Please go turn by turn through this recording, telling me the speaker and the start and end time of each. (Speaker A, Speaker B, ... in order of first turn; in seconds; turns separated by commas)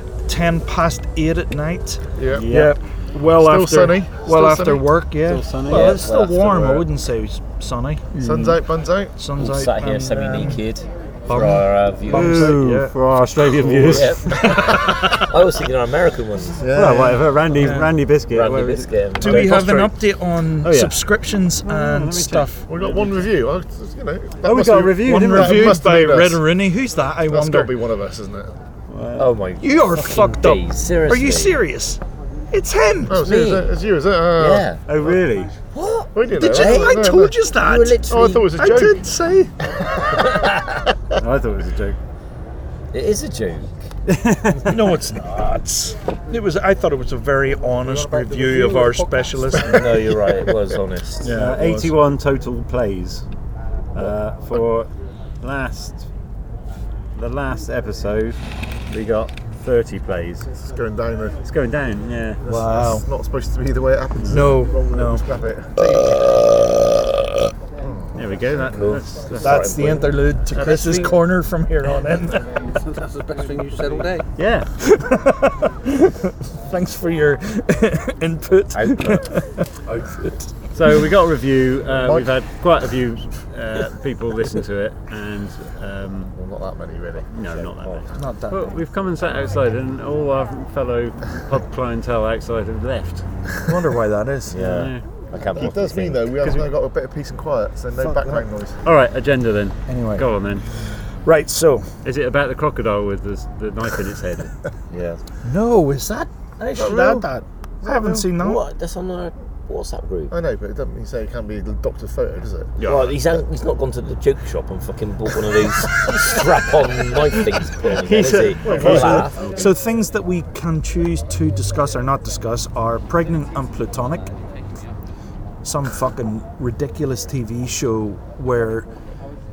Speaker A: 0.2-8.5, Speaker B: 2.1-2.5, Speaker C: 2.3-2.8, Speaker B: 3.3-5.0, Speaker C: 5.2-6.0, Speaker D: 5.7-6.8, Speaker B: 8.2-9.1, Speaker A: 9.1-10.6, Speaker D: 9.4-12.6, Speaker A: 11.3-14.4, Speaker C: 12.1-15.2, Speaker D: 13.9-16.7, Speaker B: 16.6-17.2, Speaker C: 16.7-19.9, Speaker A: 17.6-17.9, Speaker D: 18.3-19.6, Speaker A: 19.2-22.6, Speaker C: 20.6-20.9, Speaker C: 21.6-23.3, Speaker B: 22.7-26.6, Speaker C: 24.4-25.7, Speaker A: 25.0-27.8, Speaker B: 27.3-28.5, Speaker C: 28.9-29.3, Speaker D: 29.2-31.6, Speaker A: 29.6-32.0, Speaker A: 32.5-33.2, Speaker B: 33.1-35.2, Speaker C: 33.2-33.7, Speaker D: 33.2-33.6, Speaker D: 34.3-34.8, Speaker C: 34.9-35.5, Speaker D: 35.7-37.0, Speaker B: 36.1-37.4, Speaker A: 36.3-38.0, Speaker D: 37.5-38.5, Speaker B: 38.1-39.0, Speaker A: 38.5-39.5, Speaker B: 40.0-40.4, Speaker D: 40.1-40.8, Speaker C: 41.2-42.0, Speaker D: 42.9-43.7, Speaker A: 44.1-50.1, Speaker B: 47.8-50.4, Speaker D: 49.6-51.5, Speaker A: 51.2-51.8, Speaker B: 51.3-51.9, Speaker C: 51.3-53.2, Speaker C: 53.9-54.9, Speaker C: 55.4-56.0, Speaker C: 57.1-58.4, Speaker C: 58.9-60.5, Speaker B: 60.6-61.4, Speaker C: 61.4-62.4, Speaker B: 62.4-66.2, Speaker A: 62.5-63.1, Speaker C: 64.2-64.5, Speaker A: 64.3-65.2, Speaker D: 65.8-66.8, Speaker B: 67.8-68.2, Speaker C: 68.1-69.7, Speaker D: 68.5-70.2, Speaker A: 69.3-72.5, Speaker C: 70.5-71.1, Speaker E: 70.7-71.0, Speaker E: 72.6-74.2, Speaker C: 74.4-74.7, Speaker A: 74.8-80.5, Speaker D: 78.7-79.3, Speaker C: 80.7-86.3, Speaker B: 81.9-82.3, Speaker B: 86.3-87.3, Speaker C: 87.3-93.4, Speaker D: 87.5-88.1, Speaker A: 88.1-88.8, Speaker A: 93.6-94.6, Speaker D: 94.5-96.3, Speaker C: 94.5-95.0, Speaker B: 95.5-98.8, Speaker C: 96.4-96.7, Speaker A: 98.0-98.4, Speaker C: 98.8-100.6, Speaker A: 99.9-100.3, Speaker A: 100.8-101.9, Speaker C: 102.0-104.5, Speaker D: 104.9-105.2, Speaker A: 105.4-108.6, Speaker B: 106.7-108.3, Speaker D: 108.2-110.3, Speaker B: 110.3-113.1, Speaker D: 112.8-119.5, Speaker C: 117.9-119.6, Speaker B: 118.6-119.6, Speaker A: 118.8-124.3, Speaker A: 125.6-128.9